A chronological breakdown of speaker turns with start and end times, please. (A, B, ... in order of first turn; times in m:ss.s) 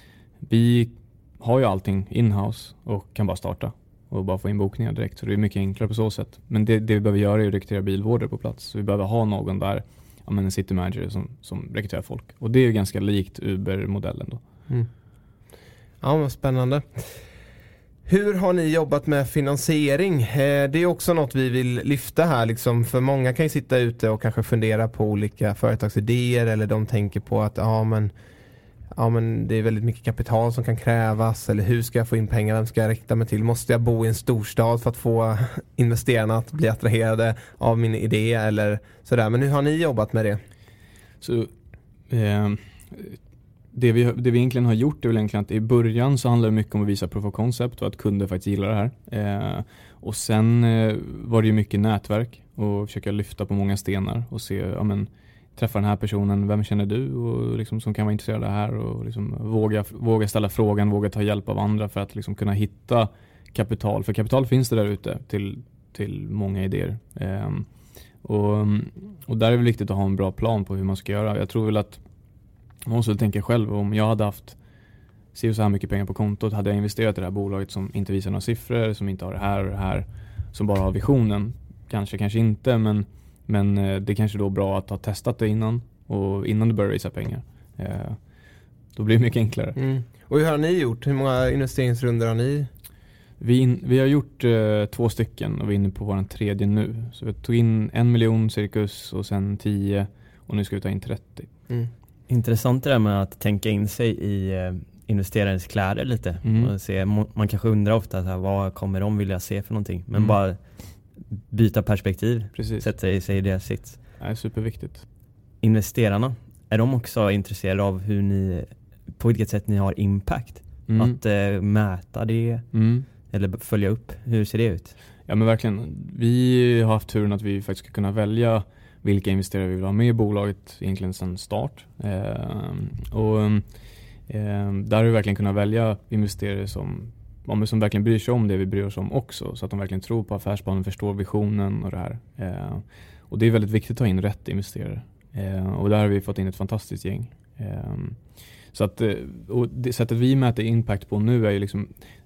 0:00.5-0:14.4 A
0:16.0-0:17.1 B
0:18.0-0:28.1 B
0:28.9-0:40.4 B
0:41.2-0:41.5 A
0:42.1-0:43.2 A
0:43.7-1:07.7 A
1:08.2-1:12.0 A
1:12.9-1:14.6 A
1:15.3-1:28.2 A
1:28.9-1:29.8 A
1:29.8-1:32.7 B
1:33.4-1:41.5 A
1:42.3-1:50.6 C
1:46.4-1:46.7 A
1:51.5-1:54.0 C
1:52.5-1:52.9 A
1:54.2-1:55.0 A
1:55.6-2:02.7 C
2:00.9-2:01.2 A
2:02.7-2:03.1 A
2:03.3-2:04.9 C
2:05.3-2:13.6 A
2:14.3-2:28.2 A
2:28.7-2:31.9 A